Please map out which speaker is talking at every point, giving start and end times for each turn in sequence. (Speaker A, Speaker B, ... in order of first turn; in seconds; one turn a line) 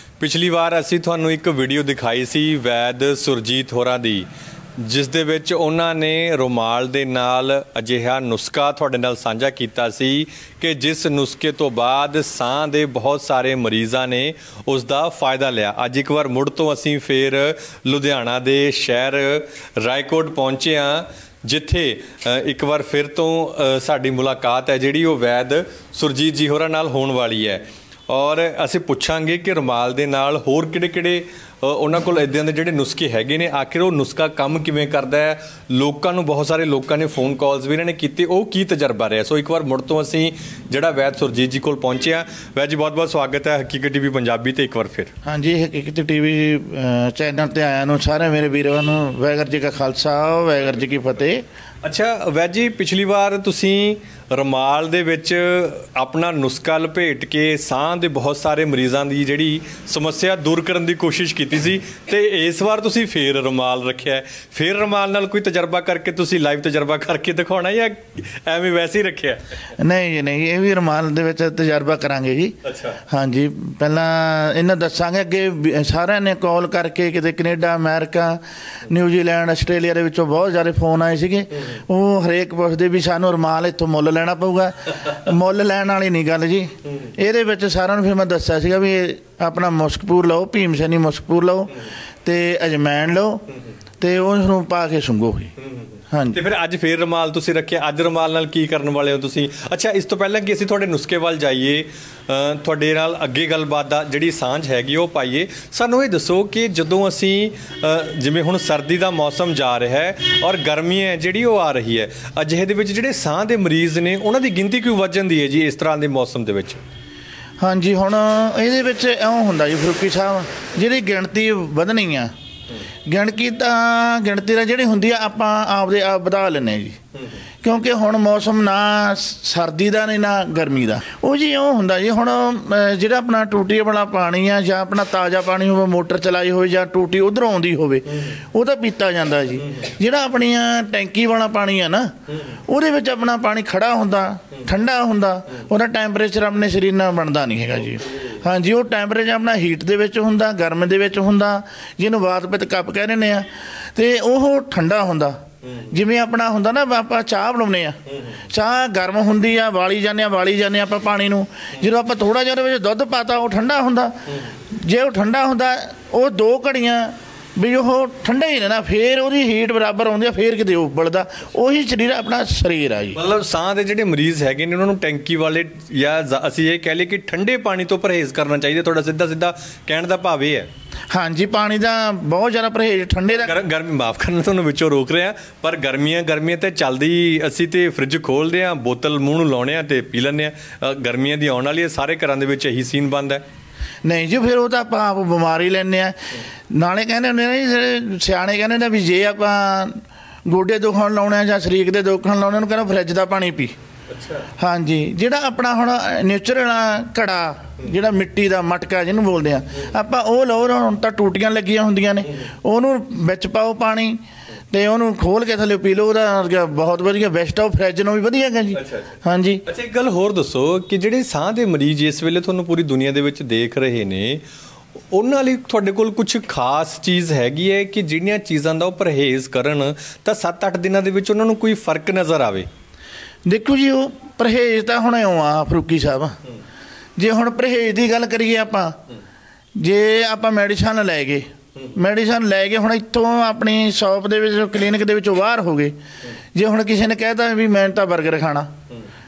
Speaker A: 0.2-45.1
Speaker B: 45.2-51.5
Speaker A: 51.8-69.5
Speaker B: 69.8-93.5
Speaker A: 72.7-73.0
Speaker B: 94.0-95.5
Speaker A: 95.6-116.8
Speaker B: 96.1-96.4
Speaker B: 117.6-122.3
Speaker B: 123.0-127.0
Speaker A: 127.2-127.4
Speaker B: 127.6-173.2
Speaker A: 142.3-142.6
Speaker A: 147.9-148.4
Speaker A: 155.6-155.9
Speaker A: 158.1-158.4
Speaker A: 173.2-180.7
Speaker B: 181.1-183.5
Speaker A: 183.3-193.4
Speaker B: 194.1-203.8
Speaker A: 204.1-204.5
Speaker B: 204.6-219.6
Speaker A: 218.7-224.4
Speaker A: 225.1-232.7
Speaker B: 233.5-236.4
Speaker B: 237.2-239.0
Speaker B: 239.8-246.0
Speaker B: 246.5-248.7